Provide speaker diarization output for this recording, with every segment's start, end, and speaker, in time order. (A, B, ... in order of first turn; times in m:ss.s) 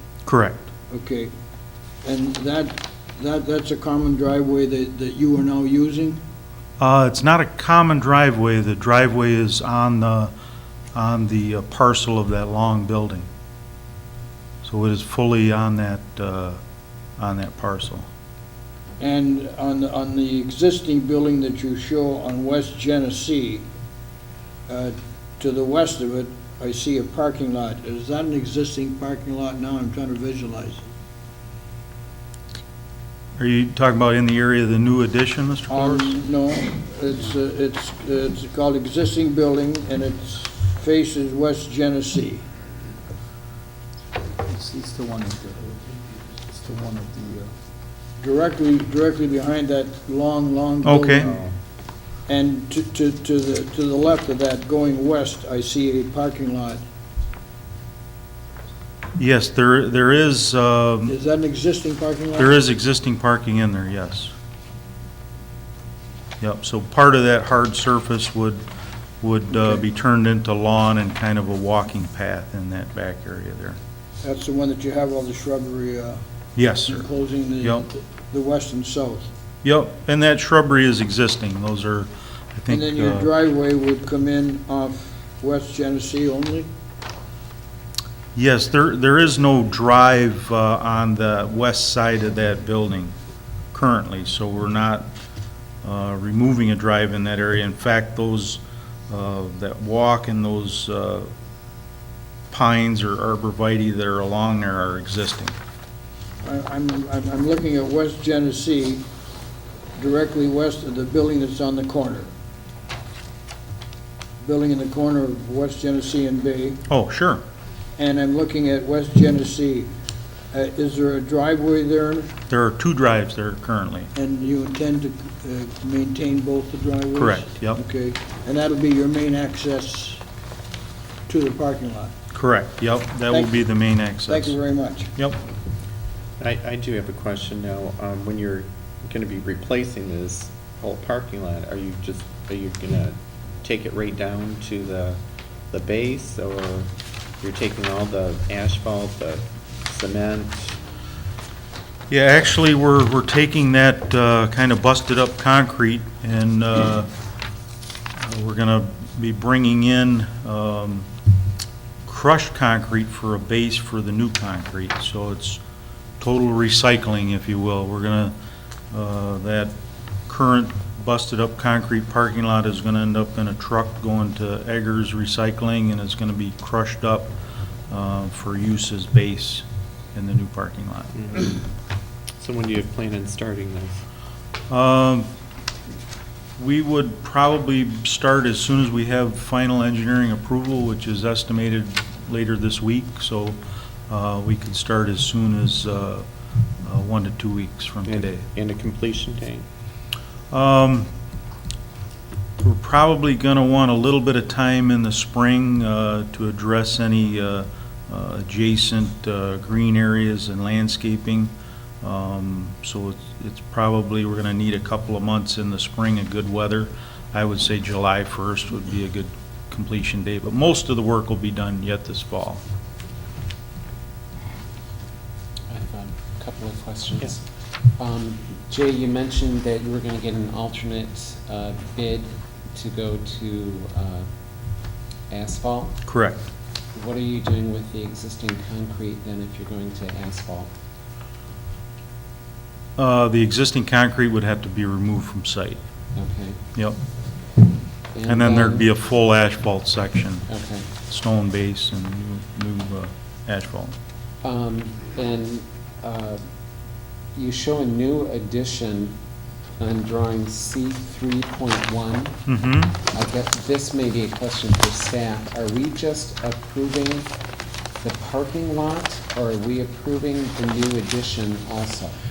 0:00.3-0:00.7 A
0:00.9-0:01.3 B
0:02.0-0:06.2 B
0:06.8-0:10.3 A
0:11.0-0:13.3 A
0:14.6-0:16.6 A
0:17.2-0:18.1 A
0:19.0-0:23.7 B
0:24.7-0:30.8 B
0:33.4-0:36.2 A
0:35.7-0:42.4 B
0:44.5-0:45.8 C
0:46.5-0:47.5 C
0:48.2-0:51.4 B
0:50.8-0:51.3 A
0:51.3-0:51.5 D
0:52.3-0:56.8 B
0:59.2-1:01.2 A
1:01.1-1:02.6 B
1:02.4-1:04.3 A
1:06.4-1:08.6 A
1:09.2-1:13.8 A
1:14.2-1:16.2 B
1:16.6-1:17.0 A
1:16.8-1:19.3 B
1:17.6-1:17.9 A
1:19.6-1:23.3 A
1:22.7-1:26.7 B
1:28.4-1:33.1 A
1:33.7-1:35.1 A
1:35.8-1:41.3 A
1:42.5-1:45.5 A
1:46.4-1:49.0 B
1:50.0-1:52.3 B
1:54.4-1:56.8 B
1:56.9-1:57.4 A
1:58.0-1:59.9 B
2:00.5-2:02.3 B
2:02.5-2:04.1 A
2:04.2-2:10.2 B
2:07.1-2:07.8 A
2:11.3-2:12.1 B
2:12.3-2:14.6 A
2:14.3-2:15.1 B
2:16.4-2:25.2 D
2:25.7-2:30.8 D
2:32.1-2:37.1 A
2:38.2-2:41.1 A
2:42.1-2:45.6 A
2:46.2-2:48.3 A
2:48.9-2:49.7 A
2:50.3-2:57.3 A
2:57.9-3:01.2 A
3:01.2-3:01.6 D
3:02.4-3:04.0 D
3:04.7-3:05.3 A
3:06.6-3:16.2 A
3:16.8-3:18.4 A
3:18.1-3:19.7 D
3:20.5-3:21.1 A
3:22.6-3:42.6 A
3:45.7-3:56.0 E
3:56.0-3:56.4 A
3:56.9-4:00.7 E
4:03.0-4:05.8 A
4:06.2-4:06.6 E
4:08.1-4:08.9 E
4:08.3-4:10.5 A
4:10.5-4:10.9 E
4:11.1-4:13.9 A
4:14.4-4:16.4 E
4:17.4-4:19.2 E
4:19.8-4:22.4 E
4:22.5-4:23.0 A
4:23.1-4:27.3 E
4:28.0-4:32.2 E